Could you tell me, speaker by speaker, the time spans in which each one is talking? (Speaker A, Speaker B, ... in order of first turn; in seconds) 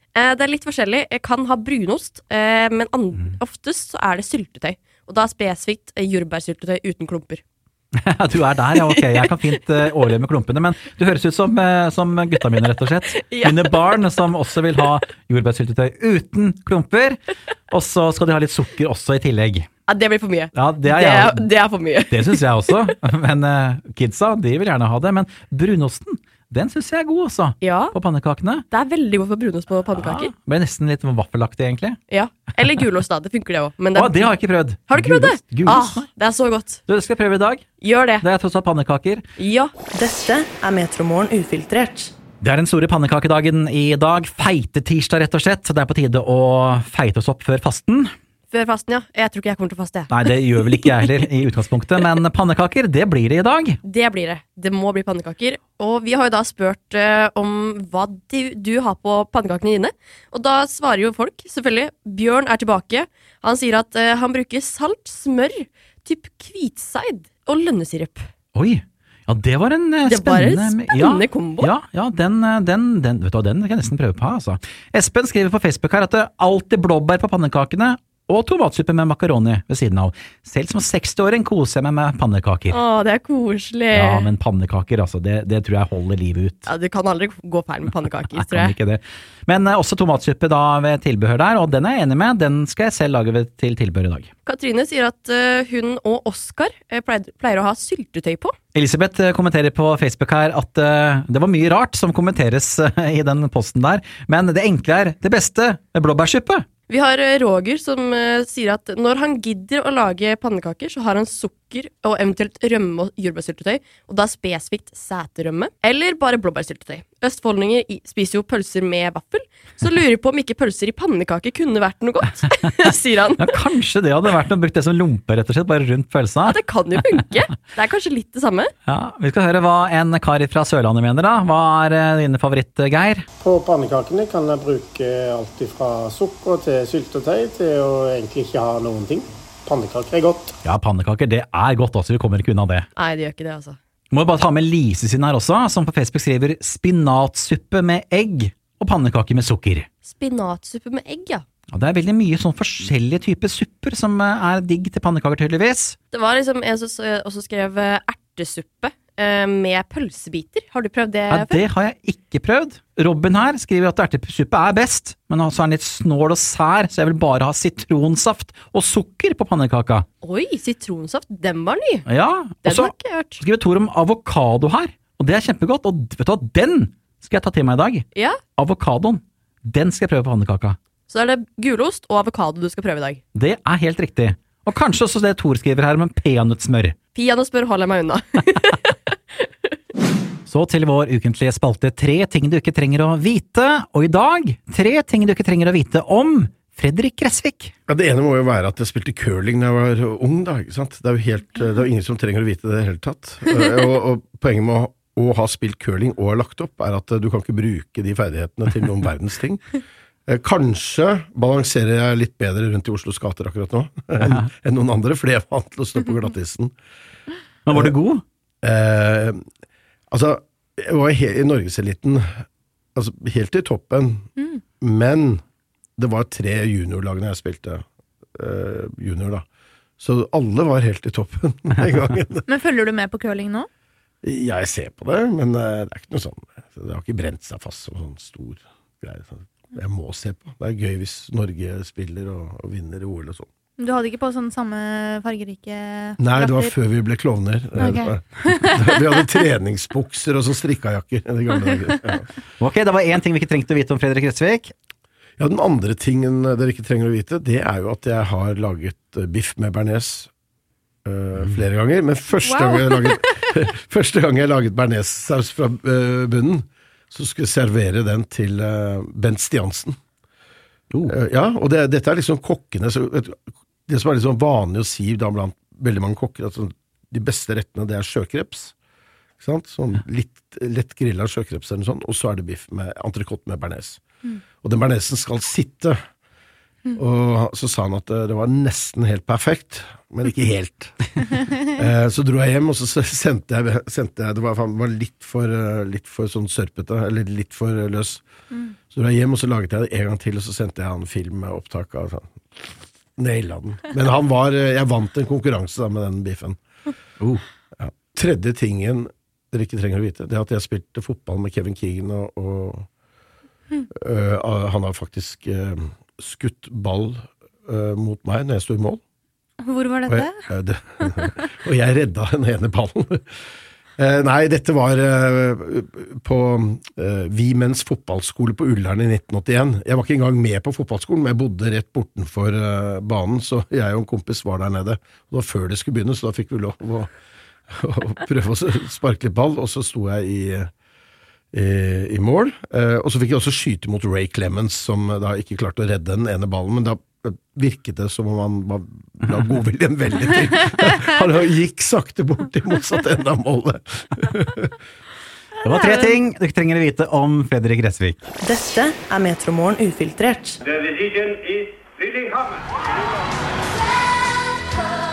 Speaker A: 0.1-7.4, 13.1-13.7, 19.9-22.4, 27.6-27.9, 28.7-30.3, 32.1-34.3, 34.9-36.8, 37.8-38.2, 39.4-39.7, 48.5-50.2, 53.8-68.3, 70.0-71.7, 82.7-84.3, 86.7-88.7, 94.5-98.5, 106.9-123.5, 126.4-128.7, 142.9-143.8, 150.1-151.4, 156.1-161.6, 170.2-172.1, 172.6-173.4, 178.1-178.4, 181.1-183.2, 187.1-189.7, 262.5-263.2
Speaker B: 8.0-17.2, 17.7-19.7, 20.5-21.5, 22.1-28.6, 29.9-32.0, 33.9-36.0, 36.9-37.6, 38.2-39.2, 42.4-48.1, 50.1-53.8, 68.5-82.8, 83.9-86.7, 88.3-94.3, 98.7-106.6, 123.3-126.6, 128.9-133.2, 140.6-142.8, 144.1-149.9, 151.7-155.9, 161.3-170.0, 172.1-178.1, 178.6-180.8, 183.3-187.0, 190.5-197.7, 214.2-214.5, 217.7-218.2, 252.6-254.7, 355.6-358.3
Speaker C: 39.9-42.1, 358.4-360.6
Speaker D: 133.4-140.5
Speaker E: 197.9-209.6, 210.3-216.7, 218.6-219.4, 220.1-222.3, 222.9-224.3, 224.8-225.4, 226.0-227.8, 228.3-229.4, 230.0-232.4, 234.2-243.5, 246.2-252.3, 255.4-260.3, 261.0-269.9, 271.1-278.7, 279.4-284.0, 284.6-286.0, 286.9-298.2, 298.9-302.3, 303.2-306.6, 307.8-312.9, 313.9-319.0, 320.1-323.2, 324.0-337.1, 337.7-340.7, 341.5-354.7
Speaker F: 232.5-233.7, 243.8-246.7, 247.8-248.9, 319.6-320.4